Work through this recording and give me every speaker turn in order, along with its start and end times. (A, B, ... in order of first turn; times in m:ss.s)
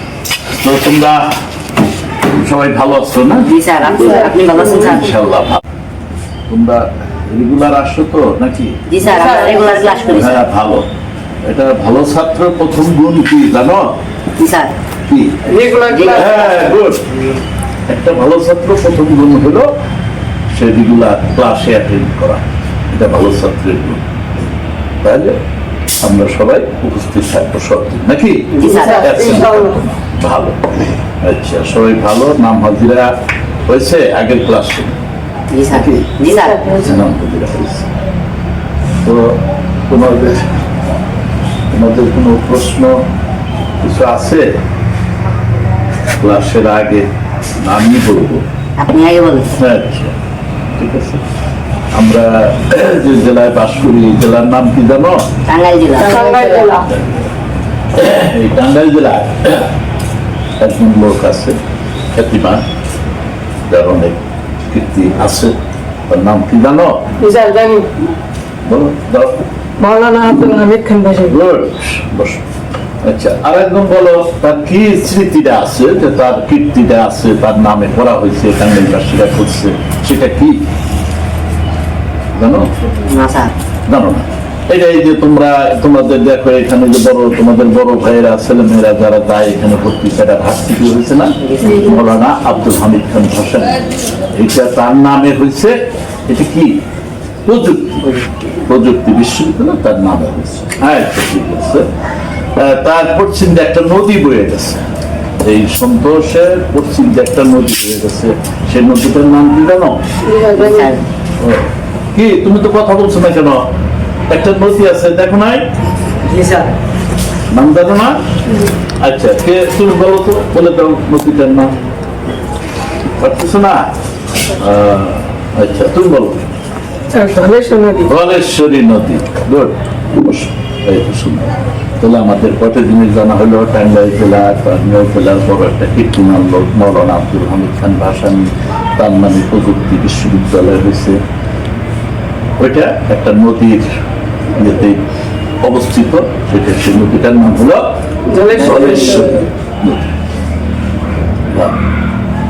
0:00.5-0:01.3 A
0:02.3-0:03.5 A
0:03.4-0:05.1 B
0:04.8-0:05.6 A
0:06.5-0:08.8 A
0:08.9-0:10.4 B
0:09.1-0:09.9 C
0:10.1-0:10.9 A
0:11.5-0:13.9 A
0:14.4-0:14.7 B
0:15.1-0:17.0 A
0:15.5-0:16.6 C
0:15.9-0:16.4 B
0:17.9-0:19.7 A
0:20.5-0:24.0 A
0:25.0-0:25.4 A
0:26.0-0:30.6 A
0:28.5-0:29.1 B
0:28.7-0:29.8 C
0:31.2-0:33.1 A
0:33.7-0:34.9 A
0:35.5-0:36.7 B
0:35.7-0:36.1 A
0:36.4-0:36.8 C
0:36.8-0:37.9 A
0:39.0-0:40.5 A
0:41.7-0:43.0 A
0:43.8-0:44.6 A
0:46.2-0:47.1 A
0:47.6-0:48.4 A
0:48.8-0:49.5 B
0:49.6-0:50.1 A
0:50.8-0:51.2 A
0:51.9-0:55.2 A
0:55.5-0:56.7 B
0:56.0-0:56.9 C
0:56.9-0:57.2 A
0:58.0-0:59.7 A
1:00.6-1:01.6 A
1:02.1-1:02.6 A
1:03.7-1:04.2 A
1:04.7-1:05.5 A
1:06.1-1:07.1 A
1:07.2-1:07.9 C
1:08.7-1:09.4 A
1:09.8-1:11.4 C
1:11.2-1:12.4 A
1:13.0-1:20.6 A
1:22.4-1:22.7 A
1:23.0-1:23.5 B
1:23.9-1:33.8 A
1:31.4-1:32.1 B
1:31.6-1:31.9 C
1:34.3-1:35.8 A
1:36.3-1:36.8 A
1:37.5-1:38.1 A
1:38.7-1:41.9 A
1:42.6-1:44.8 A
1:45.4-1:50.0 A
1:50.2-1:50.9 C
1:50.6-1:51.0 B
1:51.4-1:53.7 A
1:54.3-1:55.7 A
1:56.3-1:56.7 B
1:57.5-1:58.2 A
1:59.0-2:01.7 A
2:03.2-2:03.9 A
2:04.5-2:06.4 A
2:07.1-2:08.1 C
2:08.0-2:21.2 A
2:22.6-2:23.9 A
2:24.6-2:25.0 A
2:25.6-2:30.1 A
2:28.3-2:29.4 C
2:31.5-2:31.8 A